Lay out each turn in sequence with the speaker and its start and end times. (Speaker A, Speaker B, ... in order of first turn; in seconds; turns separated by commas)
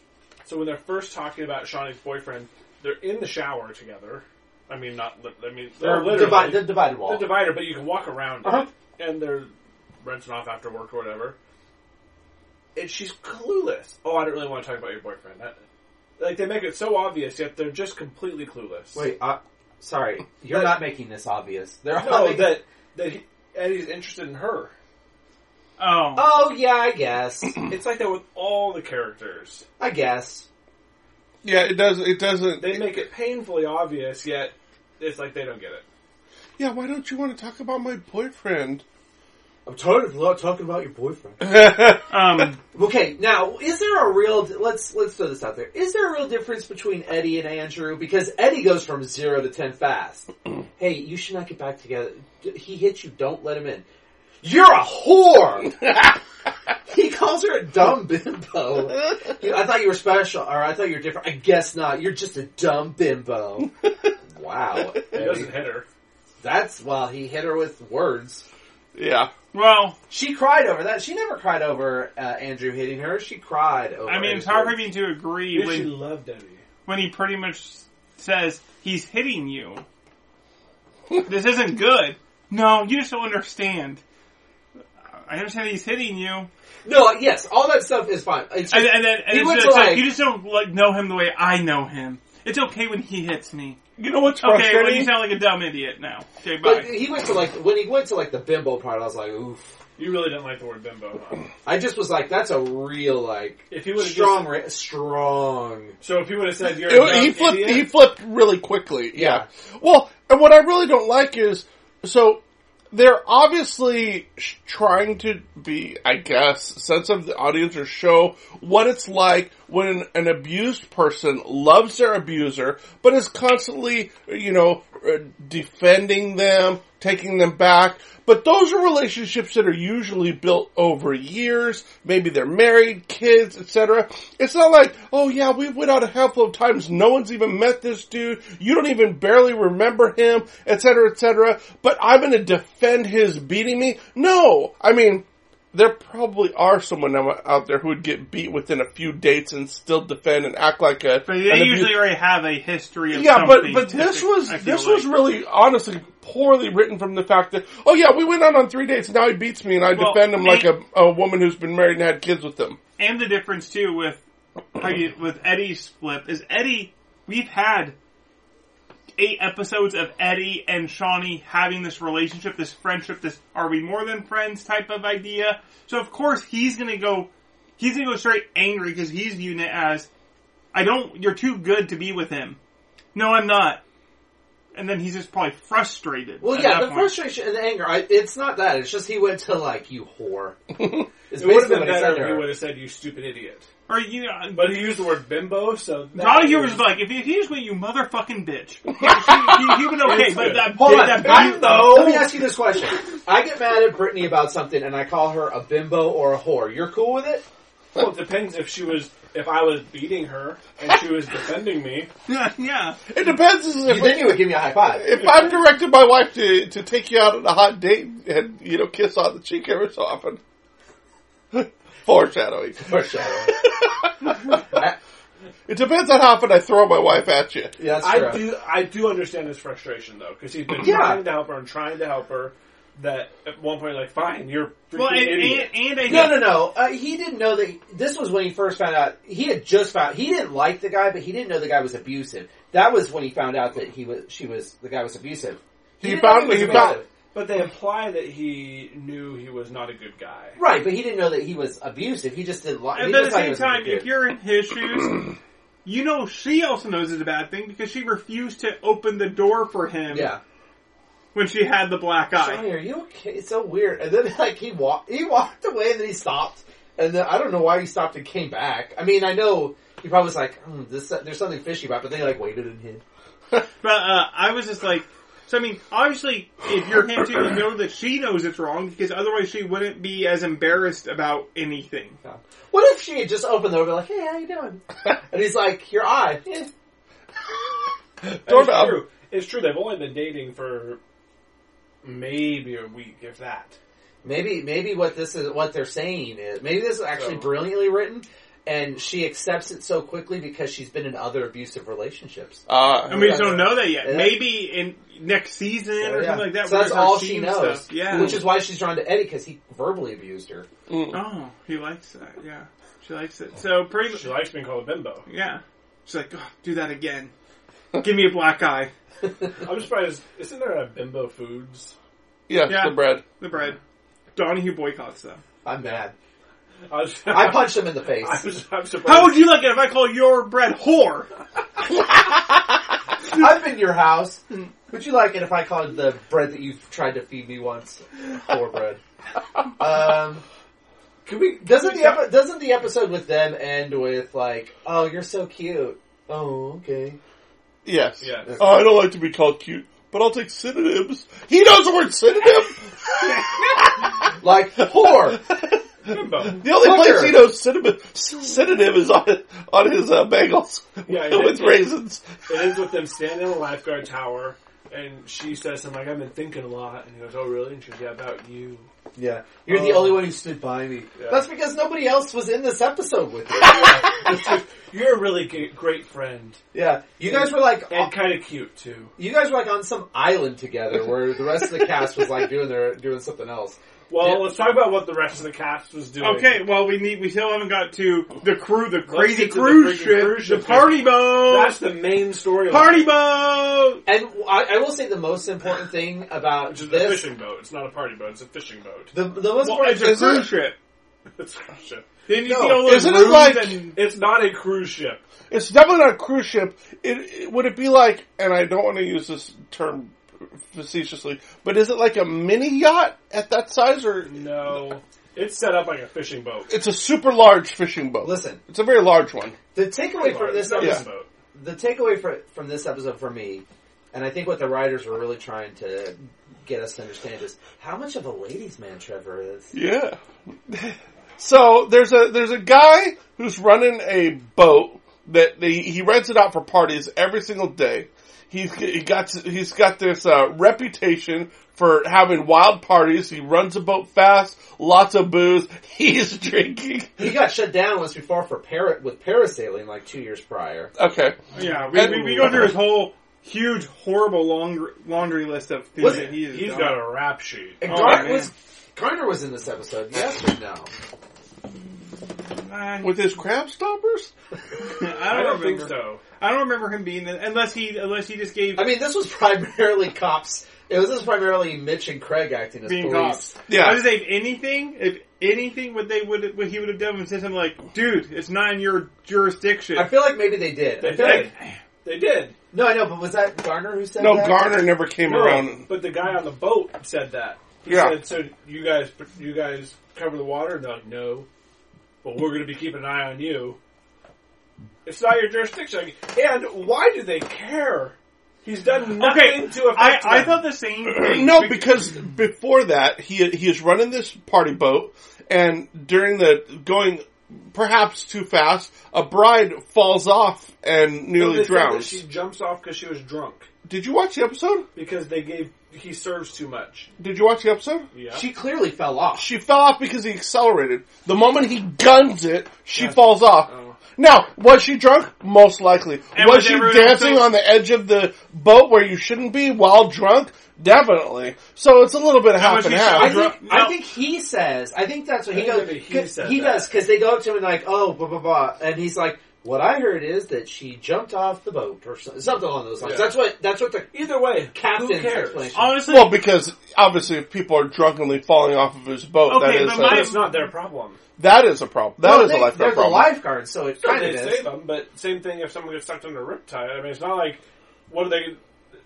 Speaker A: 0.4-11.4, Speaker B: 5.8-7.4, Speaker A: 12.7-15.6, Speaker A: 16.2-19.1, Speaker B: 18.9-22.6, Speaker A: 20.5-20.8, Speaker A: 22.0-24.7, Speaker C: 25.8-26.3, Speaker B: 26.1-27.6, Speaker A: 27.7-29.6, Speaker B: 29.8-30.5, Speaker D: 31.4-33.0, Speaker A: 32.6-35.9, Speaker D: 36.6-38.8, Speaker B: 39.6-41.5, Speaker D: 41.4-42.0, Speaker C: 42.1-42.6, Speaker B: 42.7-53.8, Speaker B: 54.4-55.7, Speaker B: 56.9-63.7, Speaker B: 64.3-65.5, Speaker A: 65.1-65.9, Speaker B: 66.4-68.4, Speaker D: 68.9-69.3, Speaker C: 69.5-70.0, Speaker B: 70.1-74.8, Speaker C: 74.1-76.0, Speaker A: 75.5-76.6, Speaker C: 76.9-79.8, Speaker C: 81.2-84.0, Speaker C: 85.2-86.5, Speaker B: 86.8-90.1, Speaker C: 88.7-93.8, Speaker D: 94.0-95.2, Speaker C: 94.4-96.9, Speaker B: 96.6-99.7, Speaker A: 100.0-101.5, Speaker B: 101.6-106.0, Speaker A: 103.7-104.6, Speaker A: 106.0-107.9, Speaker D: 106.8-152.1, Speaker B: 109.1-109.5, Speaker C: 151.2-155.1, Speaker D: 153.1-162.8, Speaker C: 159.9-160.7, Speaker C: 163.0-164.2, Speaker C: 164.8-167.9, Speaker C: 169.2-180.1, Speaker C: 180.7-182.6, Speaker C: 183.1-183.8, Speaker C: 184.7-187.2, Speaker B: 186.4-190.6, Speaker B: 191.3-192.5, Speaker A: 191.4-193.7, Speaker C: 193.9-194.9, Speaker A: 194.5-196.8, Speaker C: 196.1-202.1, Speaker D: 199.0-199.8, Speaker A: 200.0-202.3, Speaker B: 200.7-207.4, Speaker A: 207.9-212.1, Speaker C: 212.2-213.0, Speaker D: 213.1-220.4, Speaker B: 213.8-215.1, Speaker D: 221.5-223.0, Speaker B: 222.8-223.6, Speaker D: 223.5-224.6, Speaker B: 224.7-224.9, Speaker D: 225.7-227.7, Speaker B: 227.8-228.5, Speaker A: 228.0-235.7, Speaker B: 230.8-231.2, Speaker C: 234.9-236.6, Speaker B: 236.1-247.1, Speaker D: 246.0-247.0, Speaker A: 246.4-250.6, Speaker B: 250.6-254.1, Speaker C: 252.9-255.3, Speaker C: 255.8-260.3, Speaker B: 260.1-260.4, Speaker C: 261.3-262.6, Speaker B: 262.4-273.0, Speaker C: 273.8-282.2, Speaker B: 282.2-286.7, Speaker D: 288.2-289.0, Speaker A: 288.4-291.0, Speaker A: 292.0-293.8, Speaker B: 294.2-304.4, Speaker A: 297.1-297.5, Speaker D: 302.7-303.6, Speaker C: 303.1-308.5, Speaker B: 306.0-310.7, Speaker D: 308.1-308.4, Speaker D: 310.9-311.2, Speaker C: 311.1-314.4, Speaker A: 314.1-315.2, Speaker C: 315.2-317.3, Speaker C: 317.9-318.9, Speaker A: 319.6-321.9, Speaker D: 322.5-323.2, Speaker C: 322.6-323.8, Speaker C: 324.4-325.4, Speaker B: 325.6-326.1, Speaker A: 326.9-329.6, Speaker B: 327.3-328.4, Speaker C: 329.1-331.3, Speaker B: 333.3-339.0, Speaker B: 339.8-340.4, Speaker A: 341.2-342.3, Speaker B: 341.6-347.2, Speaker D: 347.9-354.0, Speaker A: 348.2-348.6, Speaker B: 354.4-355.4, Speaker D: 355.0-362.4, Speaker A: 356.1-356.6, Speaker B: 356.6-357.4, Speaker A: 361.1-361.9, Speaker A: 362.4-368.9, Speaker B: 369.1-374.1, Speaker A: 369.7-370.3, Speaker A: 371.2-371.4, Speaker A: 373.6-376.6, Speaker B: 376.7-378.1, Speaker A: 377.3-379.1, Speaker B: 379.2-384.4, Speaker A: 384.1-386.6, Speaker C: 386.2-391.8, Speaker A: 389.1-393.1, Speaker C: 392.6-394.0, Speaker B: 394.1-397.3, Speaker A: 396.6-399.1, Speaker B: 399.1-400.4, Speaker C: 399.6-400.8, Speaker D: 400.1-400.4, Speaker A: 401.4-402.1, Speaker C: 402.3-404.0, Speaker B: 402.5-402.8, Speaker D: 402.8-403.8, Speaker A: 403.9-405.2, Speaker D: 405.5-410.1, Speaker D: 410.7-414.4, Speaker A: 414.2-416.7, Speaker D: 416.7-419.6, Speaker B: 418.2-418.6, Speaker B: 419.7-429.7, Speaker A: 420.1-421.3, Speaker D: 420.8-421.0, Speaker D: 429.7-447.3, Speaker B: 447.2-450.9, Speaker D: 451.0-451.4, Speaker C: 451.5-457.1, Speaker D: 451.9-452.7, Speaker B: 456.0-456.3, Speaker A: 456.0-458.4, Speaker B: 457.8-460.9, Speaker C: 457.9-458.5, Speaker C: 462.4-463.3, Speaker D: 463.0-464.3, Speaker C: 464.8-468.9, Speaker A: 465.3-466.2, Speaker B: 468.8-473.6, Speaker C: 472.9-480.1, Speaker D: 473.7-474.1, Speaker B: 479.9-481.5, Speaker A: 481.0-481.5, Speaker C: 481.2-481.8, Speaker A: 482.0-482.6, Speaker B: 482.7-484.6, Speaker D: 484.2-485.9, Speaker A: 485.2-491.5, Speaker D: 487.9-488.2, Speaker A: 492.2-493.8, Speaker A: 495.1-500.6, Speaker C: 499.1-502.1, Speaker D: 501.1-512.2, Speaker A: 511.4-513.7, Speaker D: 513.9-514.9, Speaker A: 514.9-517.1, Speaker D: 517.2-518.1, Speaker A: 518.1-518.4, Speaker B: 518.3-519.5, Speaker D: 519.4-533.5, Speaker A: 522.9-524.0, Speaker C: 526.3-527.5, Speaker C: 532.5-533.9, Speaker B: 533.1-544.1, Speaker A: 535.5-536.9, Speaker A: 543.0-543.4, Speaker A: 544.1-545.8, Speaker B: 544.7-545.9, Speaker C: 545.7-546.4, Speaker D: 546.1-550.3, Speaker C: 549.5-550.7, Speaker A: 549.9-551.2, Speaker D: 551.4-553.3, Speaker B: 552.2-554.7, Speaker A: 554.0-558.6